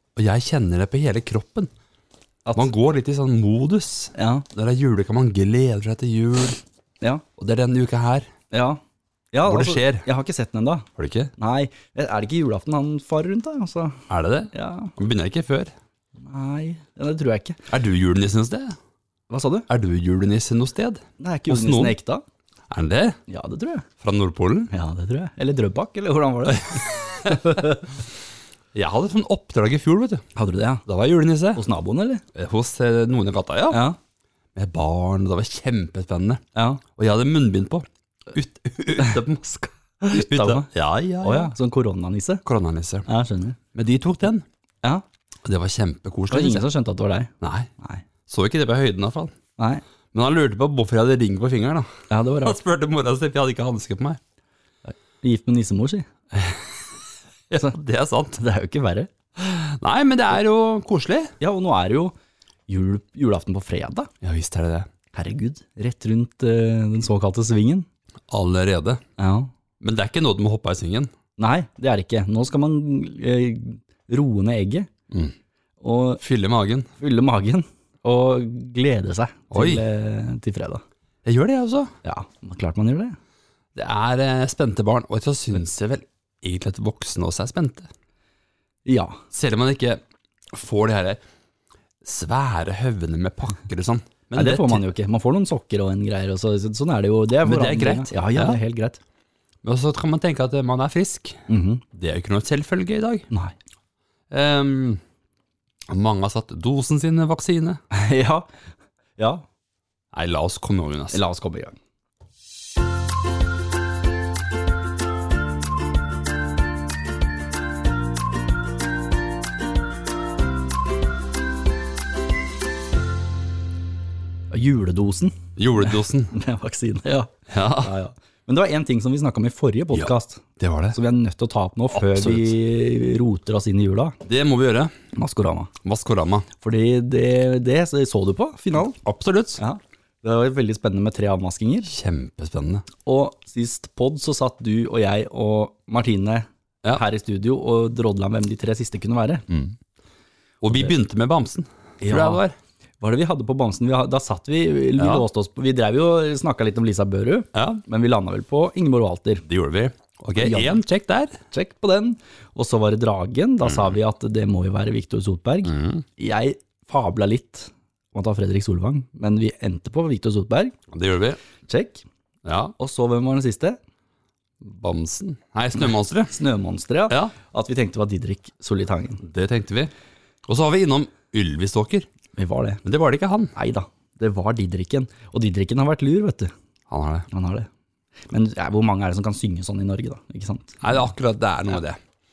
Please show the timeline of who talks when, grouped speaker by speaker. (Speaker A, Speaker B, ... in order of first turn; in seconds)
Speaker A: 0.1-1.7, 2.5-6.6, 7.4-8.3, 9.4-10.1, 11.0-11.3, 14.1-15.7, 17.7-18.8, 19.7-21.9, 22.7-23.2, 24.0-24.7, 26.7-27.4, 28.7-30.2, 30.9-31.6, 32.3-33.8, 34.5-36.4, 37.0-41.5, 42.4-43.1, 43.7-44.4, 45.4-46.7, 47.4-47.7, 48.3-49.4, 50.1-54.2, 56.3-56.7, 57.5-58.4, 59.4-61.3, 64.2-64.9, 68.3-69.0, 69.8-71.1, 76.2-76.9, 79.5-79.8, 81.2-81.9, 83.7-87.9, 89.3-90.0, 90.5-91.2, 92.0-94.9, 97.4-98.6, 99.6-103.3, 104.3-105.0, 105.9-107.8, 110.1-111.2, 125.5-126.3, 127.5-127.9, 129.9-131.0, 132.0-132.5, 134.2-134.9, 135.8-136.5, 139.0-139.6, 141.8-142.9, 149.5-149.7, 150.6-152.6, 155.0-155.2, 157.5-157.8, 159.4-161.4, 163.7-163.9, 165.6-166.0, 170.9-171.4, 172.4-172.7, 174.6-176.4, 177.1-177.3, 179.2-179.9, 180.5-182.1, 182.8-183.5, 186.9-187.3, 190.8-192.0
Speaker B: 2.4-2.7, 4.1-4.4, 8.5-8.8, 9.3-14.9, 16.2-17.6, 19.3-19.7, 21.2-22.2, 23.3-23.9, 24.7-27.8, 30.4-30.8, 31.5-32.2, 33.7-34.0, 36.5-36.8, 40.1-40.7, 41.2-42.4, 43.1-43.6, 46.3-48.0, 49.6-49.8, 52.1-52.6, 54.8-56.1, 58.4-59.1, 61.4-62.1, 62.7-64.1, 65.1-67.9, 69.2-69.5, 71.4-74.9, 75.8-76.2, 77.0-80.8, 82.0-83.2, 88.8-89.2, 94.3-99.0, 101.5-101.8, 107.9-108.5, 109.2-109.4, 111.1-111.8, 124.5-134.2, 135.1-135.7, 136.6-139.0, 139.6-141.9, 143.0-149.4, 152.0-152.4, 153.0-159.4, 160.4-160.8, 161.5-170.7, 171.7-172.0, 172.8-173.8, 176.3-179.2, 182.3-182.8, 183.6-186.5, 187.3-187.7, 188.3-190.8